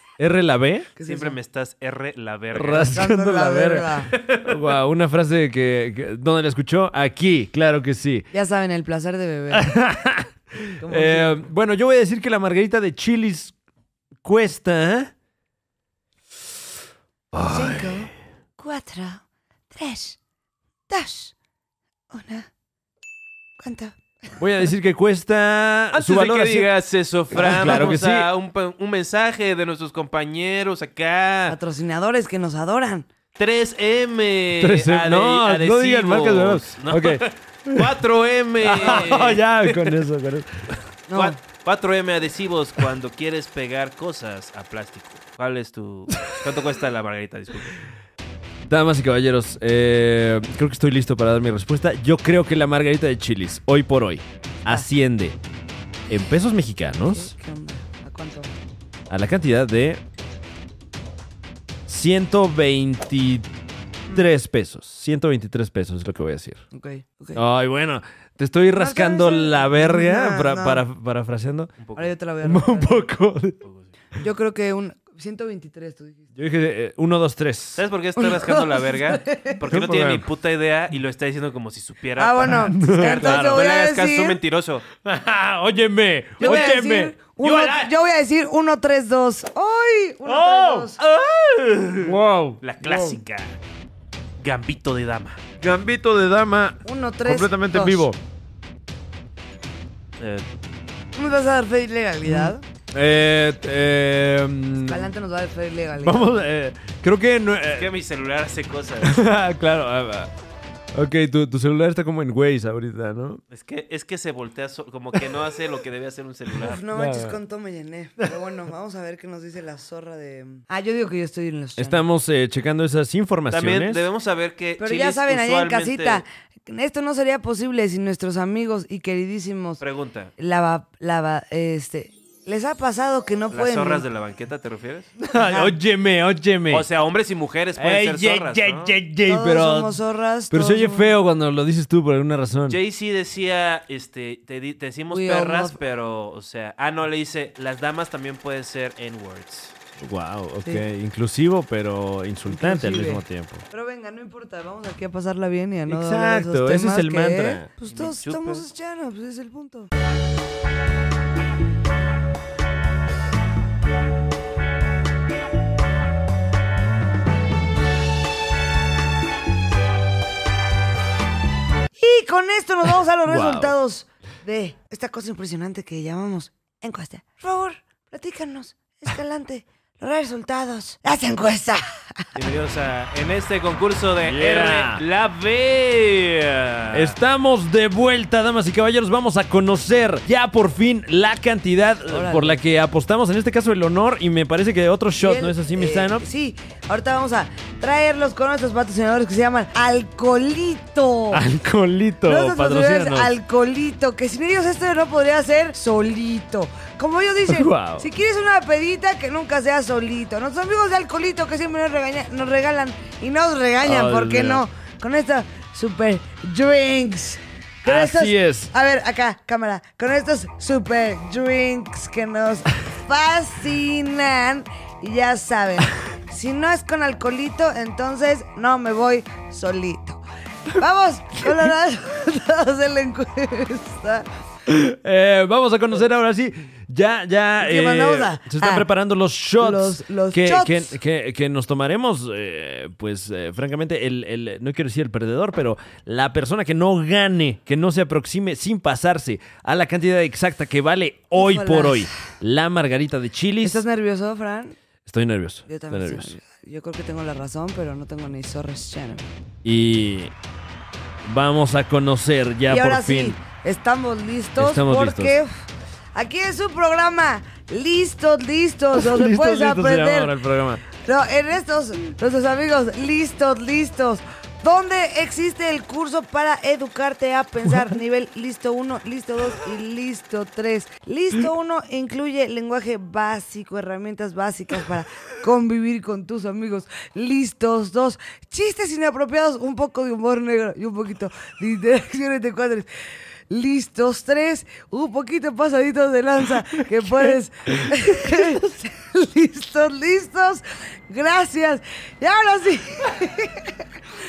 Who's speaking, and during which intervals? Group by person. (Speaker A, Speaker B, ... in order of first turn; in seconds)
Speaker A: 0.2-0.9, 2.5-8.2, 9.5-13.5, 14.2-15.1, 17.3-18.1, 24.4-26.7, 27.3-28.3, 34.6-37.9, 38.6-40.7, 46.1-46.4, 48.6-55.4, 56.1-57.3, 59.1-60.0, 61.9-63.5, 64.1-66.6, 67.3-71.7, 72.4-73.6, 76.3-77.8, 79.6-80.3, 82.4-83.7, 85.0-87.1, 90.2-93.2, 95.6-98.2, 102.2-105.1, 106.0-107.9, 109.0-110.3, 110.9-113.4, 116.9-117.4, 121.8-124.0, 135.2-136.9, 137.8-140.0, 140.5-142.8, 150.0-153.7, 155.9-157.7, 173.2-173.8, 184.2-185.0, 186.9-196.2, 201.3-203.3, 207.5-208.1, 213.8-214.6, 217.8-218.7, 234.7-253.8, 255.1-256.3, 259.6-260.3, 261.2-263.4, 264.6-265.3, 268.9-270.8, 297.9-298.5
Speaker B: 1.0-1.4, 2.9-4.1, 8.3-9.8, 10.8-11.4, 17.4-20.2, 20.9-21.3, 22.1-22.5, 23.6-24.0, 31.5-33.1, 41.1-41.4, 57.0-58.5, 66.7-67.4, 68.8-70.8, 72.0-73.0, 74.2-76.2, 78.2-79.6, 82.2-84.4, 86.4-91.0, 96.8-98.0, 101.1-102.7, 104.8-106.4, 116.6-122.0, 124.8-129.8, 130.4-134.0, 135.3-135.7, 139.2-141.1, 145.1-145.8, 152.5-159.9, 172.0-182.2, 192.1-192.6, 195.2-201.4, 202.3-230.2, 230.8-234.2, 237.6-238.9, 239.6-240.9, 251.3-252.2, 253.6-254.8, 255.7-259.2, 262.7-265.5, 266.1-270.3, 271.0-292.9, 293.5-303.8
Speaker C: 1.1-3.0, 4.1-4.6, 25.9-31.6, 33.4-40.0, 41.1-47.8, 71.8-72.1, 73.6-73.9, 77.8-84.8, 86.4-86.8, 87.4-87.9, 91.9-93.6, 94.4-95.5, 100.2-100.5, 107.8-109.2, 113.5-116.8, 123.5-126.2, 129.8-130.3, 133.5-135.1, 136.7-139.0, 142.7-149.8, 157.9-158.6, 182.3-187.2